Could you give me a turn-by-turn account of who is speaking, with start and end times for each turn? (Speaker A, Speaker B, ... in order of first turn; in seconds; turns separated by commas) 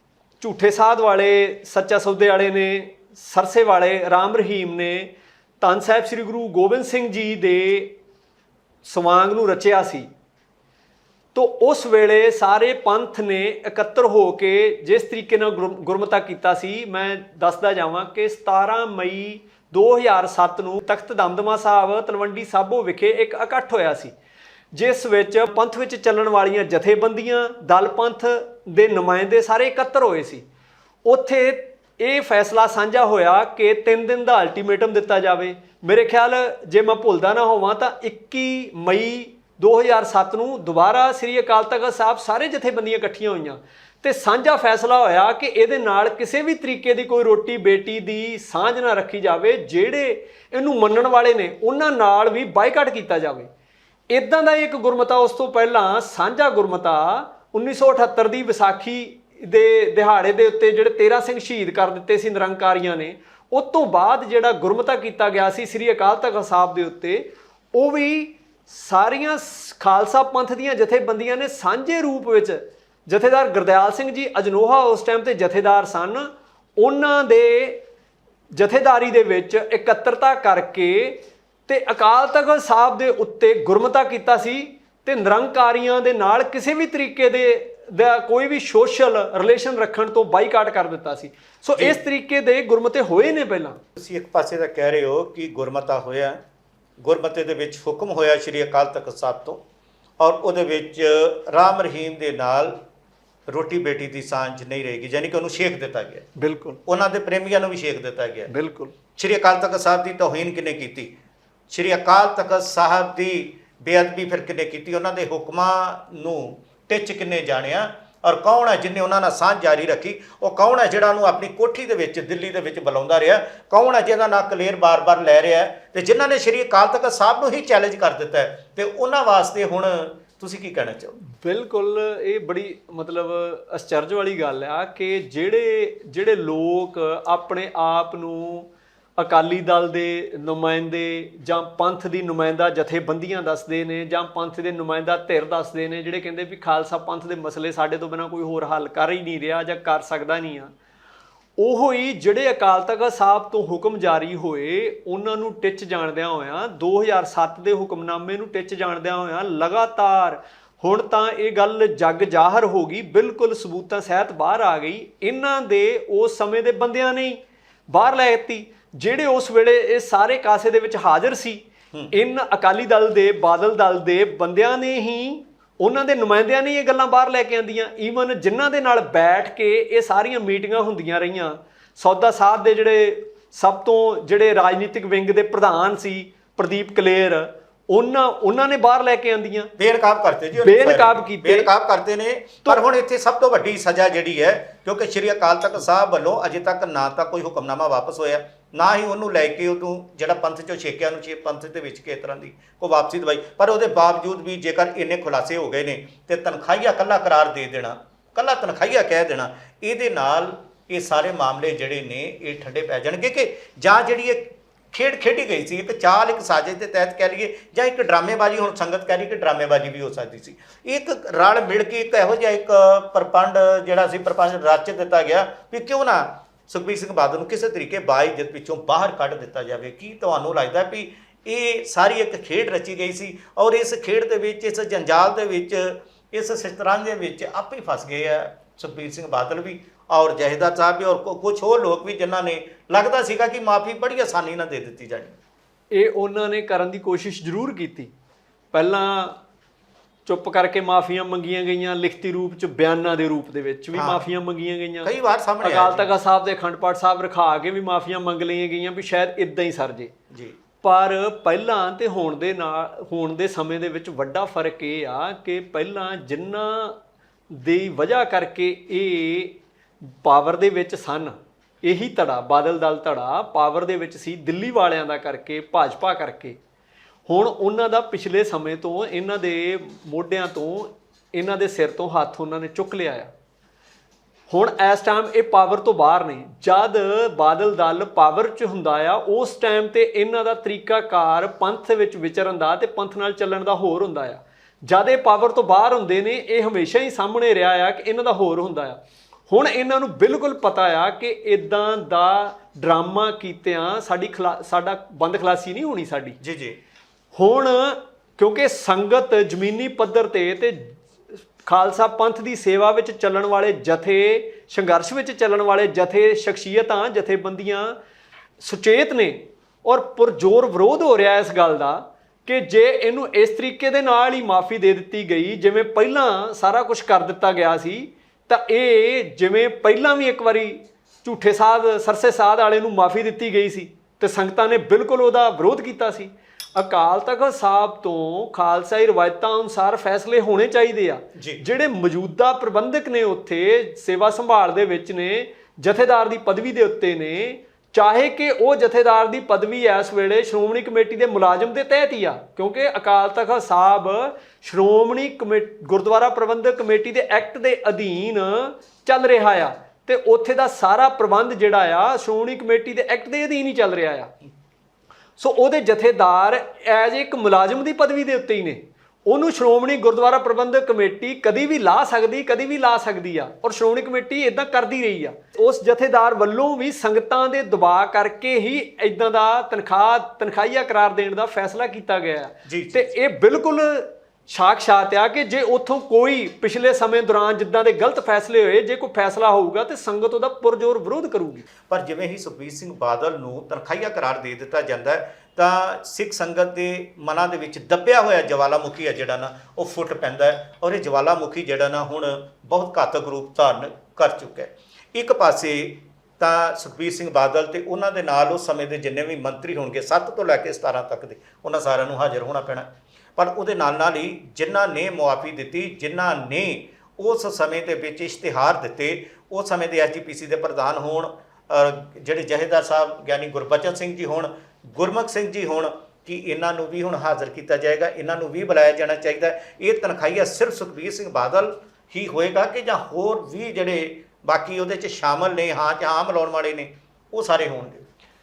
Speaker A: 0.4-7.9, Speaker A: 8.8-10.1, Speaker A: 11.3-24.1, Speaker A: 24.7-30.4, Speaker A: 31.0-53.5, Speaker A: 54.1-77.8, Speaker A: 78.5-93.8, Speaker B: 94.0-96.4, Speaker B: 97.0-99.6, Speaker B: 100.2-102.8, Speaker B: 103.5-106.3, Speaker A: 106.4-106.8, Speaker B: 106.8-108.5, Speaker A: 108.5-108.9, Speaker B: 109.1-111.2, Speaker B: 111.7-131.2, Speaker A: 131.3-150.7, Speaker A: 151.6-167.4, Speaker A: 167.9-189.7, Speaker B: 189.8-245.4, Speaker A: 190.6-191.7, Speaker A: 245.9-248.1, Speaker A: 248.7-249.4, Speaker A: 250.2-255.1, Speaker B: 253.9-254.2, Speaker B: 255.0-256.1, Speaker A: 255.6-260.1, Speaker B: 260.3-260.6, Speaker A: 260.8-267.0, Speaker A: 267.5-276.6, Speaker A: 277.3-283.3, Speaker A: 284.5-306.4, Speaker B: 306.4-306.8, Speaker A: 307.3-311.0, Speaker A: 311.6-318.0, Speaker A: 318.6-364.3, Speaker B: 341.3-341.6, Speaker A: 365.4-391.6, Speaker B: 382.6-383.1, Speaker B: 391.9-438.1